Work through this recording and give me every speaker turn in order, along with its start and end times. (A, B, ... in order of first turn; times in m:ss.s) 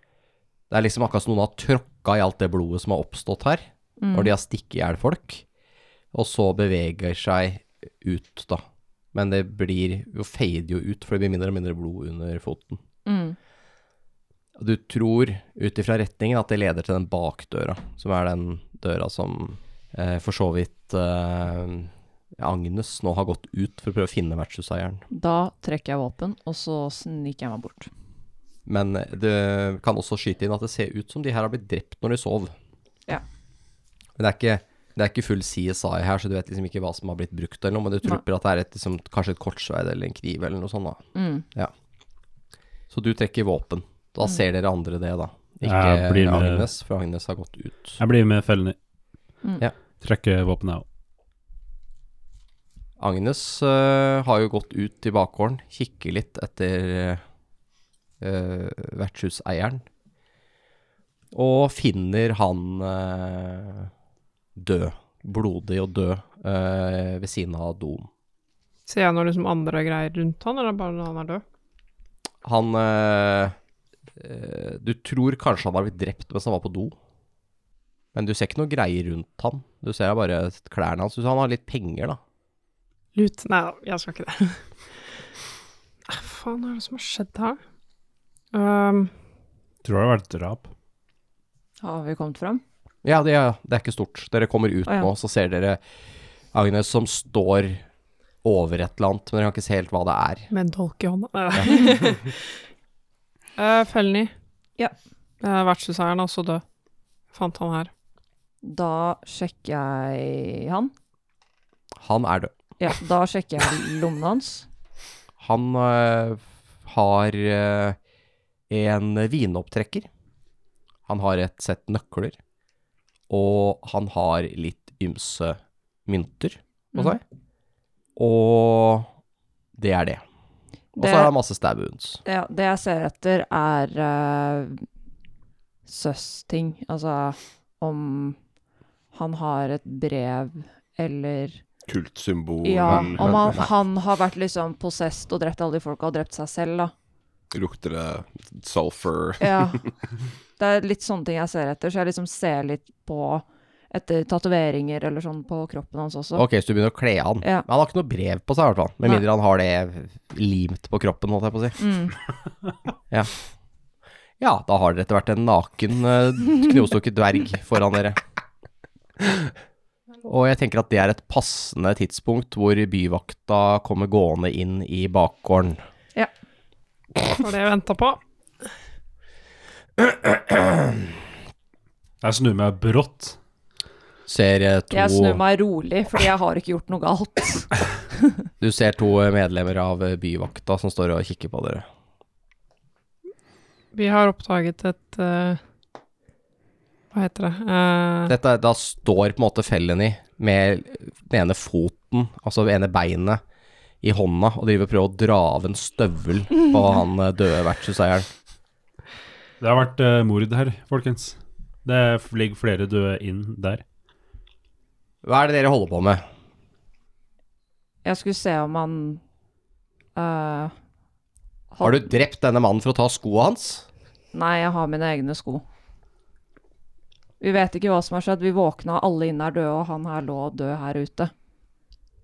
0:00.7-0:05.4 A
0:04.0-0:04.3 B
0:06.1-0:12.8 A
0:13.0-0:13.4 B
0:14.6-0:25.0 A
0:25.1-0:27.9 B
0:28.6-0:32.5 A
0:34.2-0:41.7 A
0:41.1-0:41.4 B
0:42.9-0:48.0 A
0:45.6-0:46.7 C
0:48.0-0:48.8 C
0:50.0-0:50.8 C
0:53.0-0:57.2 A
0:58.2-0:59.8 A
1:01.3-1:03.9 A
1:04.6-1:08.1 A
1:08.9-1:11.4 D
1:12.4-1:13.5 A
1:14.2-1:16.9 A
1:18.1-1:22.2 A
1:23.1-1:24.6 D
1:26.1-1:27.6 D
1:28.5-1:29.1 D
1:29.8-1:30.7 C
1:31.8-1:32.6 B
1:33.0-1:35.8 A
1:36.5-1:37.8 A
1:38.4-1:40.5 A
1:40.5-1:42.4 D
1:43.6-1:44.3 D
1:45.4-1:46.6 D
1:47.3-1:47.9 D
1:48.6-1:50.9 B
1:52.0-1:52.5 A
1:52.8-1:54.6 B
1:55.4-1:58.0 A
1:58.7-2:00.1 A
2:01.1-2:02.4 A
2:03.3-2:07.2 A
2:08.2-2:09.1 A
2:09.8-2:10.2 A
2:11.0-2:11.3 B
2:11.0-2:12.2 A
2:12.2-2:14.8 B
2:15.8-2:18.4 B
2:19.1-2:21.6 B
2:21.9-2:23.6 E
2:22.6-2:26.9 B
2:22.9-2:23.6 A
2:27.5-2:29.9 E
2:29.4-2:29.8 B
2:30.6-2:36.4 B
2:36.3-2:41.8 A
2:41.8-2:42.1 B
2:44.4-2:48.2 A
2:50.2-2:55.8 A
2:57.3-2:58.2 D
3:00.1-3:00.7 A
3:02.2-3:03.4 C
3:04.3-3:05.4 A
3:04.9-3:07.7 B
3:08.6-3:11.8 A
3:13.9-3:15.6 D
3:17.1-3:18.3 D
3:18.3-3:23.4 A
3:24.0-3:28.3 A
3:29.6-3:33.8 C
3:35.2-3:36.2 A
3:38.0-3:39.2 B
3:40.1-3:40.7 B
3:41.7-3:42.1 B
3:41.8-3:43.8 A
3:44.3-3:45.6 B
3:47.4-3:51.3 B